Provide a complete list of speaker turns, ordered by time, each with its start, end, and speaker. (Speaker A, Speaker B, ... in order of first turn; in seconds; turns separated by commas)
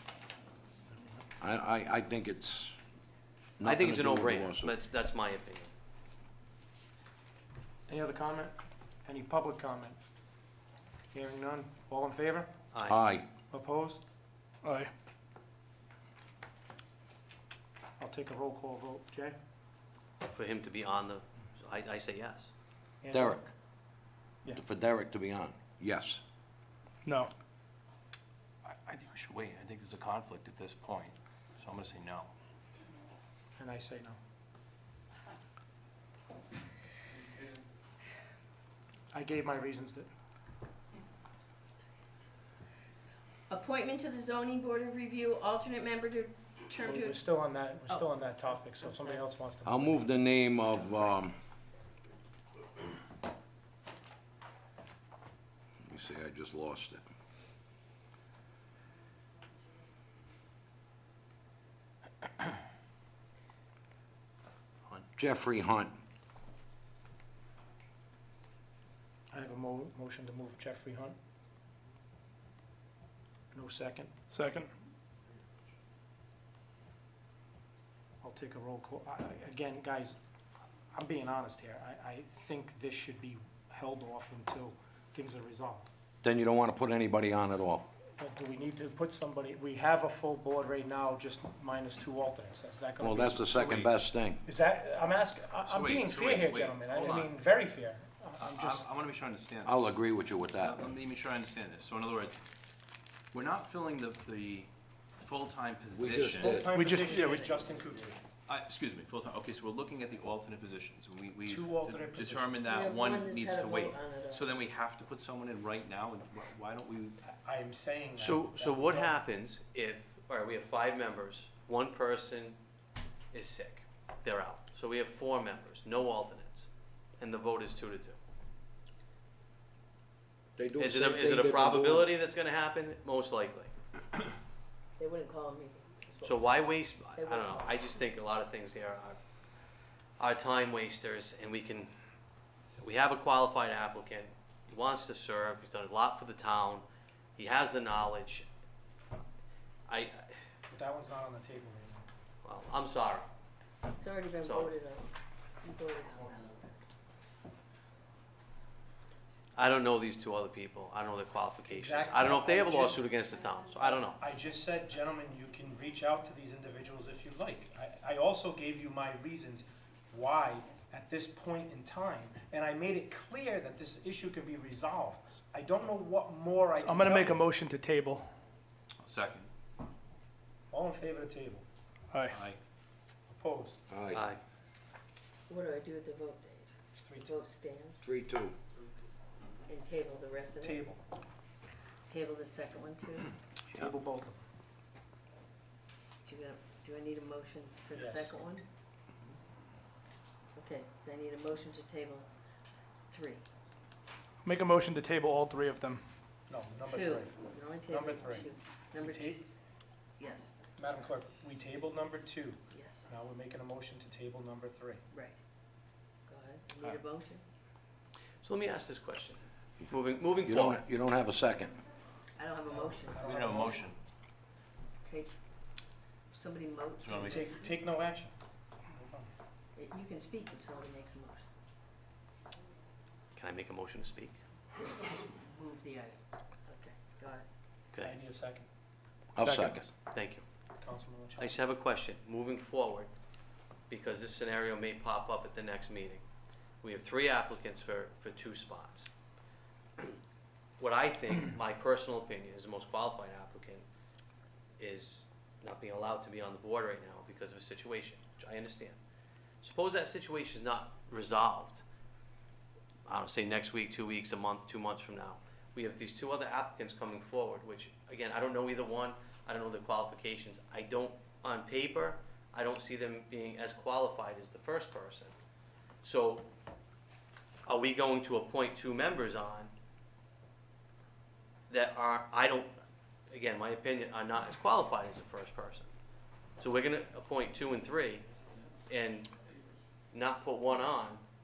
Speaker A: 1.4-2.8, Speaker A: 3.6-4.7, Speaker B: 3.6-5.7, Speaker C: 7.9-10.0, Speaker C: 11.1-12.5, Speaker B: 12.7-13.0, Speaker A: 12.8-13.2, Speaker C: 13.5-14.0, Speaker D: 14.6-14.9, Speaker C: 18.0-19.4, Speaker B: 20.3-22.5, Speaker C: 23.0-23.4, Speaker A: 23.1-23.5, Speaker A: 24.5-26.2, Speaker D: 27.0-27.3, Speaker E: 28.6-32.3, Speaker C: 33.5-34.2, Speaker C: 39.1-40.1, Speaker F: 43.5-47.2, Speaker C: 46.8-50.1, Speaker F: 47.9-49.4, Speaker A: 49.6-51.4, Speaker A: 55.8-57.0, Speaker A: 65.1-66.0, Speaker C: 69.3-71.2, Speaker C: 73.5-74.1, Speaker D: 74.3-74.7, Speaker C: 78.2-80.2, Speaker C: 80.9-85.9, Speaker A: 86.2-87.8, Speaker C: 88.2-93.9, Speaker A: 93.0-94.4, Speaker C: 94.4-98.9, Speaker E: 95.6-97.3, Speaker E: 98.4-100.0, Speaker A: 99.6-100.8, Speaker E: 100.5-102.4, Speaker E: 103.3-106.7, Speaker A: 105.9-106.7, Speaker C: 106.3-108.2, Speaker D: 106.6-107.5, Speaker F: 106.7-107.7, Speaker E: 108.5-117.2, Speaker C: 111.5-112.6, Speaker F: 112.6-114.5, Speaker C: 117.2-119.2, Speaker B: 118.2-122.6, Speaker B: 123.3-128.2, Speaker A: 130.6-132.1, Speaker B: 130.8-133.7, Speaker F: 135.0-138.0, Speaker B: 136.2-139.2, Speaker B: 140.2-141.9, Speaker B: 142.8-146.8, Speaker B: 147.4-148.4, Speaker B: 149.9-150.3, Speaker C: 150.7-152.1, Speaker B: 152.4-153.3, Speaker F: 154.0-156.8, Speaker B: 154.4-154.8, Speaker B: 159.6-164.2, Speaker C: 161.7-163.1, Speaker C: 163.8-177.4, Speaker D: 176.8-178.3, Speaker E: 179.0-179.5, Speaker C: 180.7-181.6, Speaker D: 182.1-182.4, Speaker E: 182.3-182.6, Speaker C: 183.3-183.8, Speaker A: 183.9-184.2, Speaker B: 184.1-184.4, Speaker F: 185.5-188.0, Speaker C: 186.9-187.3, Speaker A: 188.0-188.5, Speaker F: 189.7-190.8, Speaker C: 190.6-191.0, Speaker F: 192.1-193.3, Speaker C: 193.7-194.4, Speaker F: 196.2-198.6, Speaker C: 197.9-198.4, Speaker F: 200.6-202.3, Speaker F: 203.1-203.4, Speaker D: 204.4-206.0, Speaker C: 206.5-207.3, Speaker F: 206.8-209.4, Speaker C: 207.9-208.5, Speaker C: 209.0-209.5, Speaker F: 210.2-210.5, Speaker C: 210.8-215.0, Speaker F: 212.7-213.1, Speaker F: 215.1-215.4, Speaker F: 216.3-217.4, Speaker B: 218.4-220.8, Speaker A: 220.4-221.7, Speaker F: 222.3-223.8, Speaker C: 222.7-223.8, Speaker E: 223.2-224.0, Speaker F: 225.0-225.3, Speaker F: 226.3-227.6, Speaker E: 227.0-227.5, Speaker C: 227.2-228.3, Speaker C: 228.9-229.3, Speaker F: 229.8-231.4, Speaker B: 233.3-234.4, Speaker F: 234.8-237.4, Speaker C: 238.0-238.7, Speaker A: 239.3-239.9, Speaker D: 239.4-239.8, Speaker B: 239.9-240.4, Speaker C: 240.8-241.5, Speaker B: 241.4-243.1, Speaker B: 243.9-246.2, Speaker B: 246.8-249.1, Speaker B: 250.8-253.8, Speaker B: 254.8-259.0, Speaker B: 259.6-261.8, Speaker B: 263.1-275.3, Speaker B: 276.0-276.5, Speaker B: 277.6-279.7, Speaker B: 281.7-282.7, Speaker B: 283.3-285.9, Speaker B: 286.6-288.2, Speaker B: 288.9-289.3, Speaker B: 290.1-291.2